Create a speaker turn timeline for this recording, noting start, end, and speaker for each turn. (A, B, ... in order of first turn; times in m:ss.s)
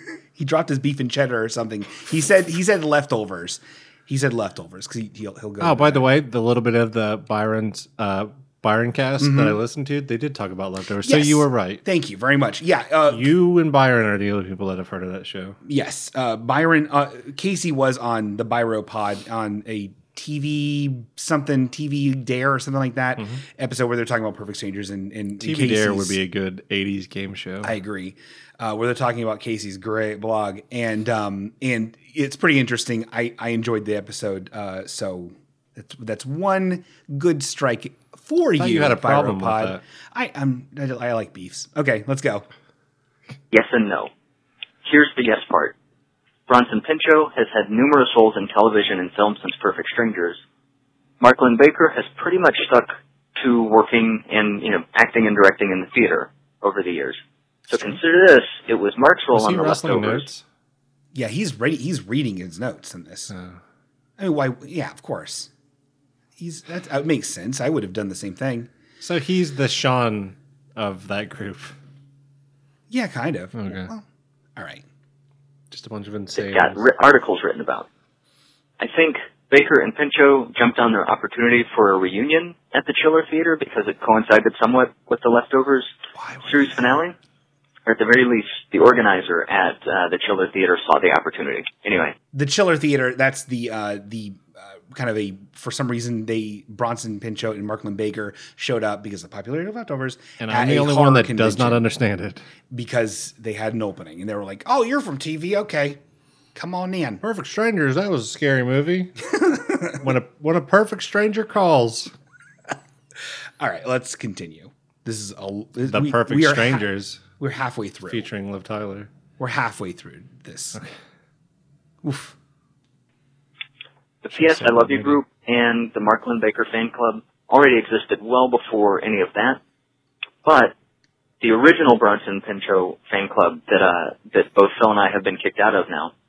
0:00.4-0:06.0 A
0:05.6-0:11.8 B
0:09.2-0:09.6 A
0:11.0-0:13.3 A
0:13.1-0:15.6 B
0:15.6-0:26.2 A
0:25.4-0:27.7 B
0:27.6-0:42.5 A
0:38.6-0:39.8 B
0:43.5-0:44.1 C
0:44.8-0:45.8 C
0:46.5-0:50.4 C
0:51.2-1:00.3 C
0:59.3-1:00.4 B
1:01.1-1:03.3 A
1:03.3-1:03.6 B
1:04.2-1:05.5 A
1:06.4-1:08.7 A
1:09.0-1:11.8 B
1:12.9-1:14.8 A
1:13.6-1:13.9 B
1:15.7-1:16.8 B
1:16.4-1:17.9 C
1:18.8-1:25.9 C
1:26.2-1:27.0 A
1:26.4-1:27.2 C
1:27.9-1:32.2 C
1:32.3-1:41.8 A
1:40.4-1:42.4 B
1:42.7-1:46.0 A
1:46.6-1:47.2 A
1:47.2-1:49.1 B
1:49.4-1:50.0 A
1:50.0-1:52.1 B
1:53.6-1:56.8 A
1:55.9-1:57.2 B
1:57.4-1:58.3 A
1:58.1-1:59.1 B
1:59.4-2:00.8 A
2:02.0-2:02.4 A
2:04.2-2:09.6 C
2:04.3-2:05.2 B
2:10.4-2:10.7 C
2:11.4-2:16.1 C